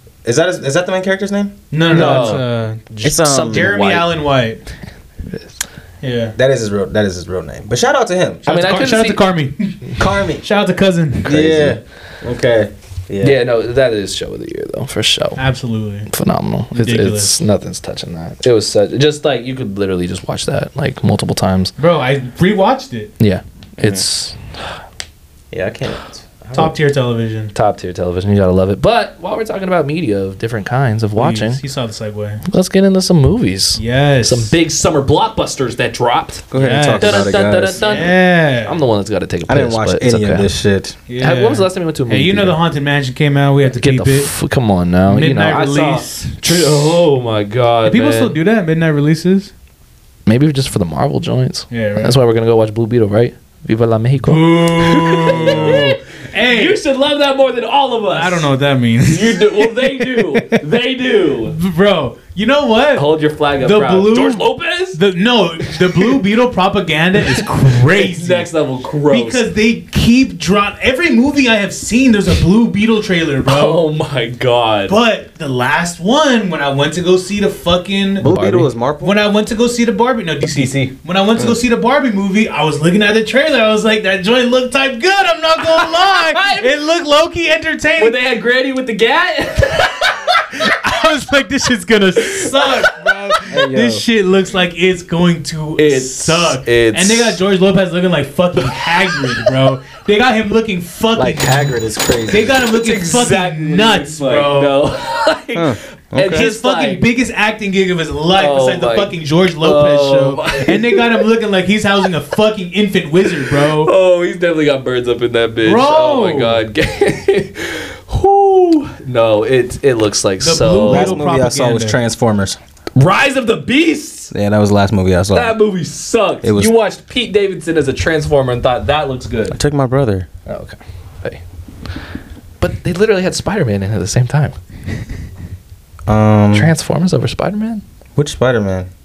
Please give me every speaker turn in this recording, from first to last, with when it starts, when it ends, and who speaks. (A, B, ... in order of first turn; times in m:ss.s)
0:00.2-0:02.4 A
0:01.7-0:04.6 B
0:01.9-0:04.1 C
0:03.0-0:03.7 A
0:06.0-0:06.4 B
0:06.4-0:08.4 A
0:08.5-0:09.2 C
0:08.5-0:11.7 B
0:10.0-0:10.4 A
0:11.2-0:13.4 A
0:13.2-0:15.4 C
0:15.4-0:16.1 B
0:16.1-0:21.7 C
0:16.7-0:17.4 B
0:21.8-0:23.1 B
0:23.2-0:24.4 C
0:25.5-0:26.8 A
0:26.5-0:27.5 B
0:27.5-0:31.6 C
0:31.2-0:32.4 B
0:32.5-0:40.5 C
0:33.8-0:34.6 B
0:36.5-0:37.8 A
0:36.6-0:38.8 B
0:39.5-0:41.0 A
0:41.1-0:44.3 B
0:41.2-0:42.6 C
0:43.7-0:48.4 C
0:45.1-0:46.6 B
0:47.9-0:49.5 B
0:50.3-0:58.5 C
0:51.7-0:52.2 B
0:54.3-0:56.8 B
0:58.1-1:00.6 B
0:59.0-1:01.6 C
1:01.5-1:08.5 B
1:03.0-1:05.0 C
1:05.6-1:06.2 C
1:07.2-1:09.4 C
1:09.1-1:13.8 B
1:13.5-1:15.0 C
1:14.9-1:18.3 B
1:18.2-1:19.2 A
1:18.2-1:18.7 C
1:19.0-1:28.2 B
1:25.8-1:26.7 C
1:28.0-1:30.6 C
1:30.5-1:41.8 B
1:32.2-1:33.4 C
1:33.5-1:34.0 A
1:35.8-1:37.4 C
1:41.2-1:42.6 A
1:42.3-1:44.8 B
1:42.7-1:47.0 C
1:45.6-1:46.5 A
1:46.3-1:53.9 B
1:48.4-1:51.2 C
1:53.4-2:01.2 C
1:55.6-1:56.6 B
2:00.4-2:02.0 B
2:00.9-2:02.6 A
2:03.0-2:04.3 C
2:04.3-2:05.6 A
2:05.3-2:09.6 C
2:06.4-2:06.7 A
2:09.5-2:10.3 A
2:10.5-2:11.4 C
2:12.6-2:14.6 C
2:16.1-2:16.7 A
2:16.5-2:17.8 C
2:18.2-2:18.9 A